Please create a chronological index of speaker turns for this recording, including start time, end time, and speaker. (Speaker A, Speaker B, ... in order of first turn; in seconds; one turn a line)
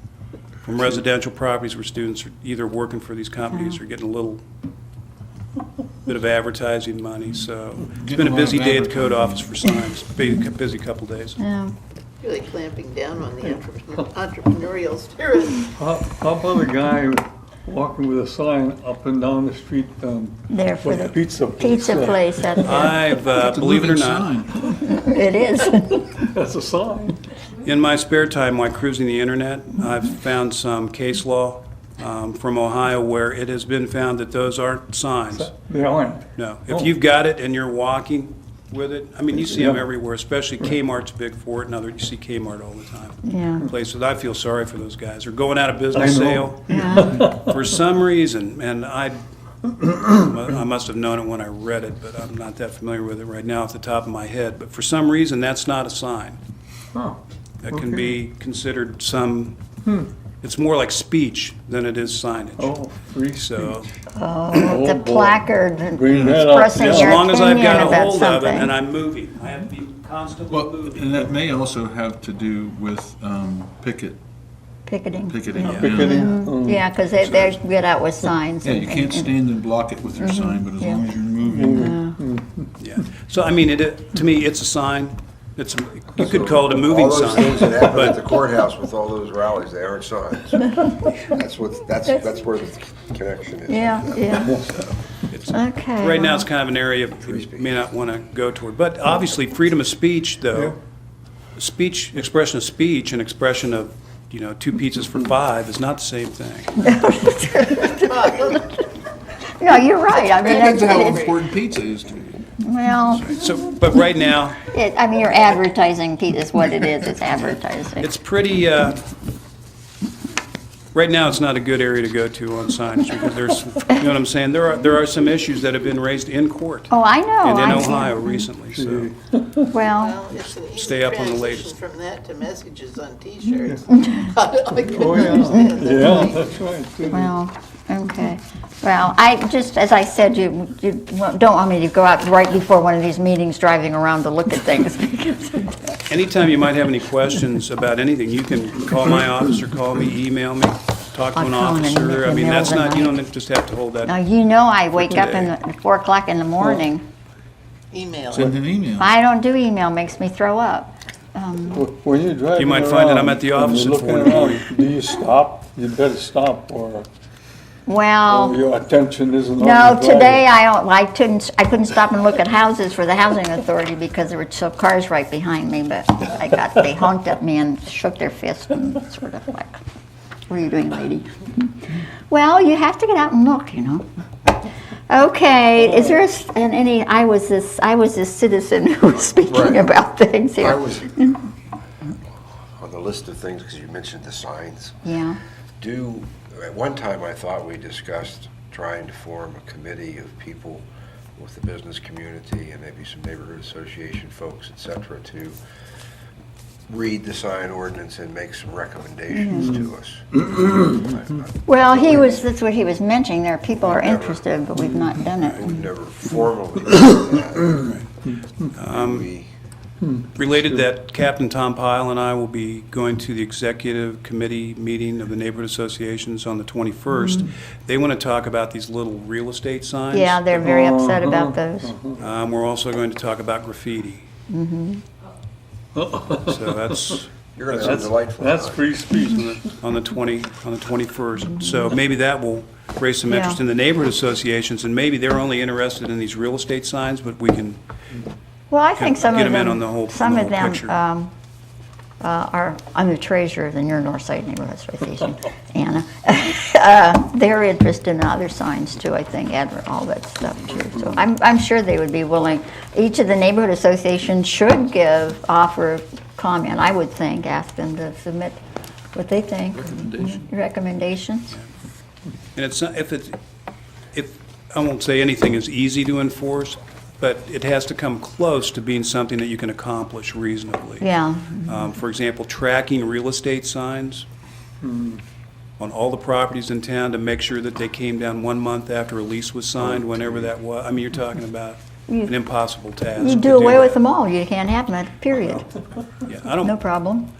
Speaker A: 0.6-4.4
Speaker B: 3.5-3.8
Speaker A: 6.0-11.4
Speaker C: 7.9-9.5
Speaker B: 11.4-11.7
Speaker D: 12.2-15.7
Speaker E: 15.8-23.2
Speaker B: 20.5-23.0
Speaker A: 22.6-24.4
Speaker C: 23.4-24.6
Speaker E: 24.6-24.9
Speaker B: 24.8-26.1
Speaker E: 26.1-27.2
Speaker A: 27.6-35.5
Speaker E: 35.3-36.9
Speaker A: 36.3-49.2
Speaker E: 39.5-39.8
Speaker B: 43.2-43.7
Speaker E: 45.9-47.5
Speaker B: 46.7-47.1
Speaker A: 49.8-56.4
Speaker E: 56.9-57.2
Speaker A: 57.6-59.6
Speaker E: 57.7-58.0
Speaker A: 60.4-62.8
Speaker E: 62.6-63.8
Speaker A: 63.4-63.9
Speaker B: 64.1-68.7
Speaker E: 64.5-67.9
Speaker A: 66.8-71.1
Speaker C: 70.5-74.2
Speaker B: 74.8-79.3
Speaker C: 75.2-76.1
Speaker E: 75.6-76.8
Speaker A: 77.2-77.5
Speaker C: 78.6-81.9
Speaker B: 80.2-81.0
Speaker E: 81.5-82.7
Speaker B: 81.7-82.2
Speaker A: 82.8-88.2
Speaker F: 86.2-94.5
Speaker B: 93.7-94.5
Speaker E: 94.4-94.8
Speaker A: 94.5-100.8
Speaker B: 95.5-96.5
Speaker F: 97.2-97.8
Speaker A: 101.6-106.8
Speaker B: 106.8-108.7
Speaker D: 107.7-108.8
Speaker B: 109.5-111.3
Speaker D: 110.1-111.4
Speaker C: 110.4-112.4
Speaker B: 112.6-113.3
Speaker A: 113.2-114.6
Speaker B: 114.6-118.1
Speaker A: 118.0-119.0
Speaker A: 120.9-129.1
Speaker B: 126.9-128.4
Speaker E: 128.7-129.7
Speaker B: 129.7-130.2
Speaker D: 129.9-136.6
Speaker A: 130.5-131.7
Speaker E: 134.9-137.3
Speaker B: 135.3-136.4
Speaker B: 137.1-146.0
Speaker A: 146.1-154.1
Speaker B: 151.3-153.2
Speaker B: 154.1-157.0
Speaker A: 154.9-155.5
Speaker D: 157.9-158.6
Speaker C: 158.3-159.1
Speaker B: 158.9-161.9
Speaker E: 161.7-167.1
Speaker A: 162.6-164.7
Speaker B: 167.9-168.6
Speaker E: 168.3-170.4
Speaker B: 169.6-179.8
Speaker B: 180.5-184.0
Speaker B: 185.1-191.4
Speaker F: 189.4-189.9
Speaker F: 190.6-191.2
Speaker F: 192.7-195.0
Speaker B: 195.0-195.4
Speaker F: 195.8-200.8
Speaker F: 201.4-205.6
Speaker F: 206.9-212.4
Speaker B: 209.3-209.8
Speaker B: 211.7-215.8
Speaker F: 213.8-214.4
Speaker E: 214.8-215.2
Speaker A: 215.4-215.7
Speaker F: 215.5-217.9
Speaker A: 218.7-219.3
Speaker F: 218.8-219.5
Speaker E: 220.0-220.8
Speaker A: 220.3-230.4
Speaker B: 230.1-231.9
Speaker E: 230.6-232.2
Speaker A: 232.2-234.3
Speaker B: 234.5-235.0
Speaker E: 235.9-237.0
Speaker A: 236.3-237.3
Speaker F: 237.5-238.9
Speaker E: 237.8-239.7
Speaker A: 239.2-247.8
Speaker B: 243.3-243.6
Speaker B: 248.7-251.3
Speaker A: 248.9-251.0
Speaker B: 252.2-268.6
Speaker B: 269.1-271.5
Speaker C: 269.7-270.5
Speaker A: 272.6-273.4
Speaker A: 274.1-281.1
Speaker B: 281.0-281.9
Speaker A: 281.6-284.2
Speaker E: 284.8-285.2
Speaker A: 285.8-294.0
Speaker B: 292.1-292.3
Speaker B: 293.1-295.8
Speaker A: 296.2-296.8
Speaker B: 296.6-297.3